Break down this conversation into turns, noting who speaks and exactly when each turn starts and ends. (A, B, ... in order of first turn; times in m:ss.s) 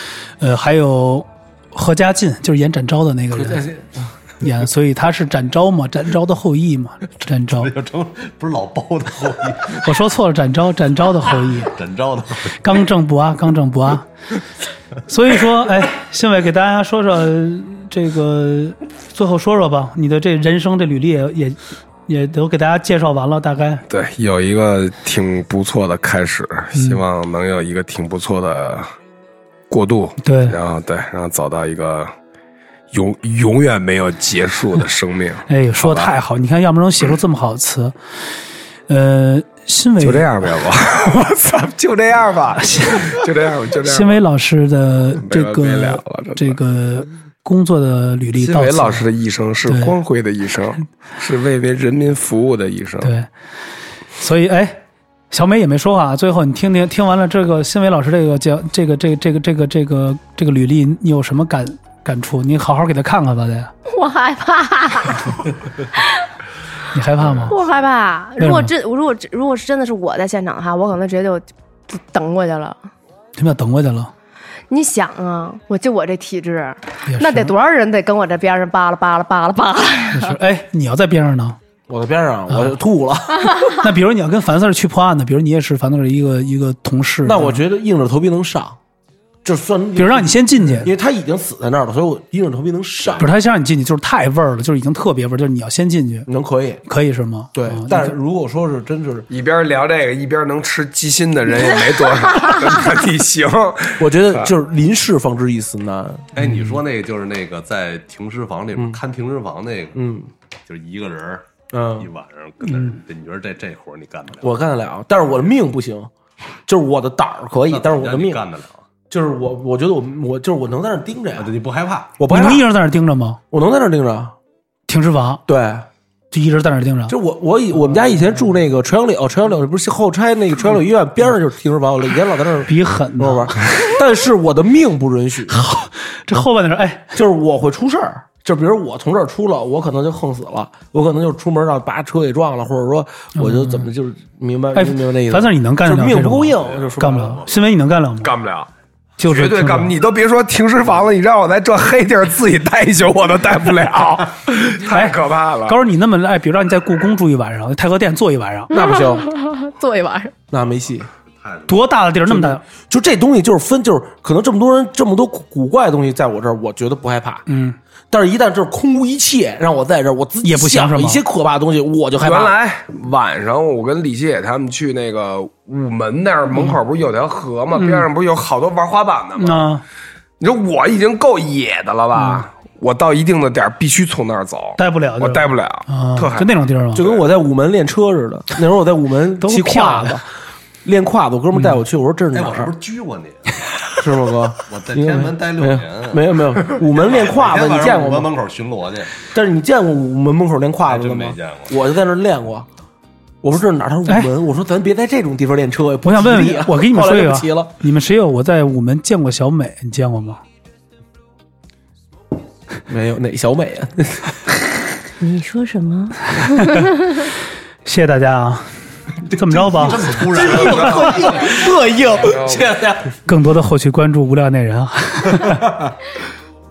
0:00.4-0:03.7 A
0:03.4-0:04.1 B
0:04.4-0:07.7 A
0:07.5-0:09.8 C
0:09.7-0:11.8 A
0:11.6-0:12.6 C
0:12.5-0:14.1 A
0:15.1-0:23.8 A
0:23.9-0:28.9 D
0:26.8-0:27.0 A
0:29.7-0:32.1 D
0:30.2-0:30.6 A
0:32.9-0:36.2 D
0:35.5-0:38.0 A
0:38.9-0:40.3 A
0:40.0-0:44.2 D
0:42.6-0:43.1 A
0:43.8-0:49.1 A
0:45.2-0:46.6 D
0:48.4-0:53.1 D
0:49.7-0:50.0 A
0:53.0-0:53.3 A
0:54.2-1:03.7 A
1:03.9-1:06.3 E
1:06.9-1:07.6 A
1:07.5-1:12.8 E
1:08.4-1:08.7 A
1:13.4-1:14.1 A
1:14.7-1:20.4 E
1:17.1-1:17.5 A
1:20.1-1:21.6 A
1:21.9-1:23.7 B
1:22.5-1:22.8 A
1:23.7-1:27.6 A
1:27.2-1:28.8 B
1:29.4-1:33.3 B
1:30.0-1:30.9 A
1:33.0-1:33.3 C
1:33.2-1:36.3 A
1:36.3-1:36.8 B
1:36.8-1:38.2 A
1:37.5-1:39.3 B
1:39.3-1:44.5 D
1:44.0-1:46.3 B
1:46.4-1:50.0 C
1:50.0-1:50.3 B
1:50.7-1:54.5 C
1:51.7-1:52.1 B
1:52.7-1:53.0 A
1:54.4-1:56.1 B
1:56.7-1:58.4 B
1:57.7-1:58.8 C
1:59.1-2:01.5 B
2:01.4-2:02.2 C
2:02.2-2:02.7 B
2:02.3-2:03.4 A
2:03.5-2:04.4 B
2:04.9-2:05.4 A
2:05.5-2:05.9 B
2:06.3-2:07.2 A
2:07.1-2:15.6 B
2:12.7-2:13.8 A
2:15.5-2:17.2 A
2:17.2-2:27.4 B
2:23.4-2:23.9 A
2:24.8-2:28.3 A
2:26.6-2:27.6 C
2:28.2-2:28.7 D
2:29.2-2:29.9 A
2:29.2-2:35.8 D
2:34.9-2:38.7 A
2:38.7-2:40.4 E
2:38.7-2:39.3 B
2:40.5-2:41.1 B
2:41.4-2:41.8 C
2:41.7-2:42.6 A
2:42.3-2:47.4 B
2:47.5-2:47.8 A
2:48.1-2:52.5 B
2:50.4-2:51.2 A
2:52.2-2:59.7 D
2:57.7-2:58.1 A
2:59.4-2:59.8 A
3:00.4-3:06.5 D
3:02.2-3:02.4 A
3:04.8-3:07.0 A
3:07.0-3:10.3 B
3:09.4-3:10.2 A
3:10.8-3:12.7 B
3:11.5-3:11.8 A
3:12.3-3:13.7 C
3:14.0-3:18.3 B
3:14.6-3:19.2 C
3:19.3-3:22.7 B
3:20.8-3:21.8 C
3:23.4-3:27.7 B
3:26.0-3:30.4 A
3:32.9-3:34.5 B
3:35.2-3:36.9 E
3:36.3-3:37.3 A
3:37.8-3:38.7 A
3:39.2-3:43.2 B
3:39.3-3:40.2 A
3:39.6-3:41.9 C
3:40.6-3:41.3 D
3:42.2-3:42.8 D
3:43.3-3:45.6 A